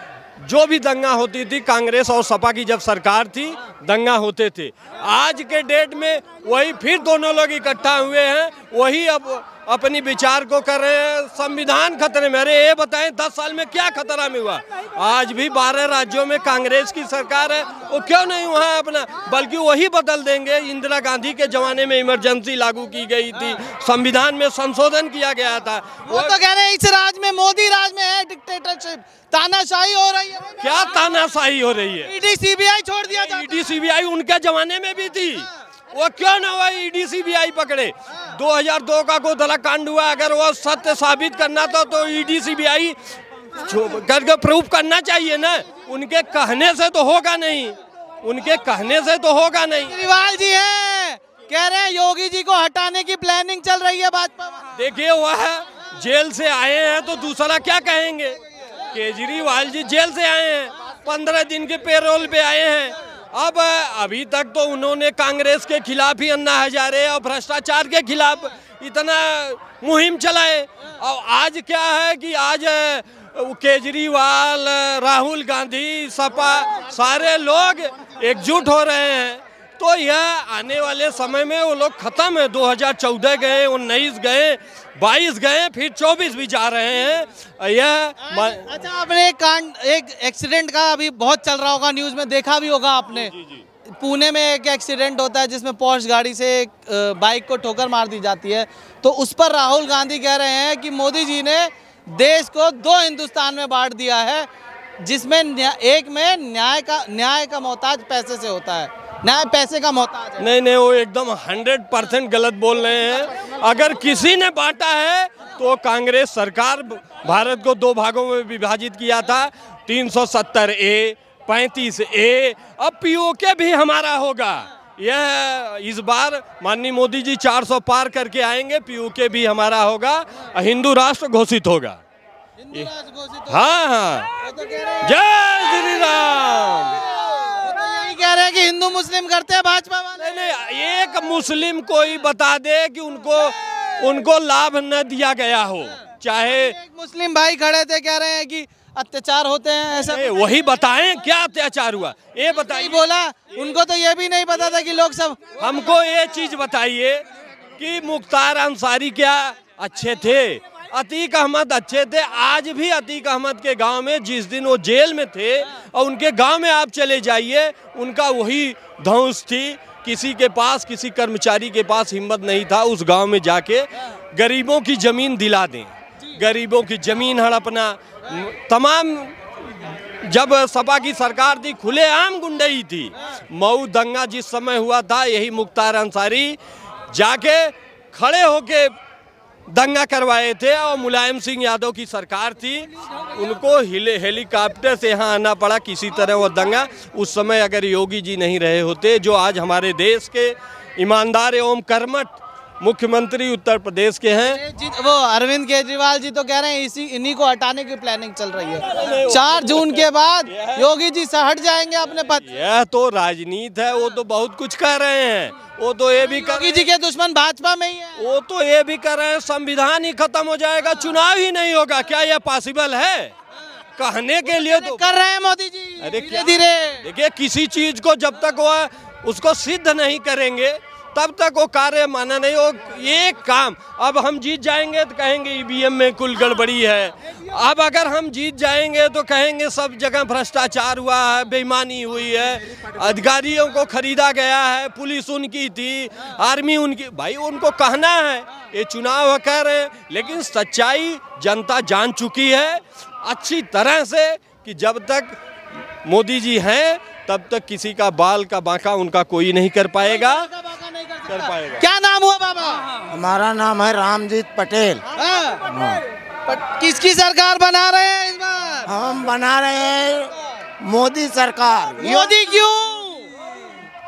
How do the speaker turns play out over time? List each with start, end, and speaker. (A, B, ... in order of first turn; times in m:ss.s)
0:00.4-0:26.4 A
0:26.1-0:30.7 B
0:30.6-0:32.1 A
0:32.0-0:33.5 B
0:33.0-0:43.0 A
0:43.6-0:50.0 A
0:50.1-0:54.6 B
0:54.8-0:58.4 A
0:58.9-1:28.7 A
1:28.3-1:33.3 B
1:33.1-1:33.6 A
1:33.9-1:44.5 B
1:45.0-1:50.4 B
1:50.4-2:12.0 A
2:12.6-2:13.5 B
2:13.5-2:14.3 A
2:14.6-2:15.0 B
2:15.0-2:17.2 A
2:17.6-2:20.3 B
2:20.2-2:26.8 A
2:26.8-2:30.3 B
2:30.1-2:33.7 A
2:32.7-2:35.4 B
2:35.6-2:37.2 A
2:37.8-2:59.4 A
3:00.2-3:06.6 A
3:07.1-3:09.0 A
3:09.7-3:24.6 A
3:24.5-3:32.4 B
3:28.8-3:30.9 A
3:32.4-3:36.9 A
3:36.2-3:38.2 B
3:38.2-3:43.3 A
3:44.0-3:45.0 A
3:44.5-3:47.0 B
3:46.0-4:15.4 A
4:16.0-4:20.5 A
4:20.0-4:22.8 B
4:21.3-4:21.8 A
4:23.1-4:25.0 C
4:25.2-4:25.6 B
4:25.7-4:26.0 C
4:26.5-4:28.9 B
4:28.9-4:32.4 C
4:32.0-4:33.3 B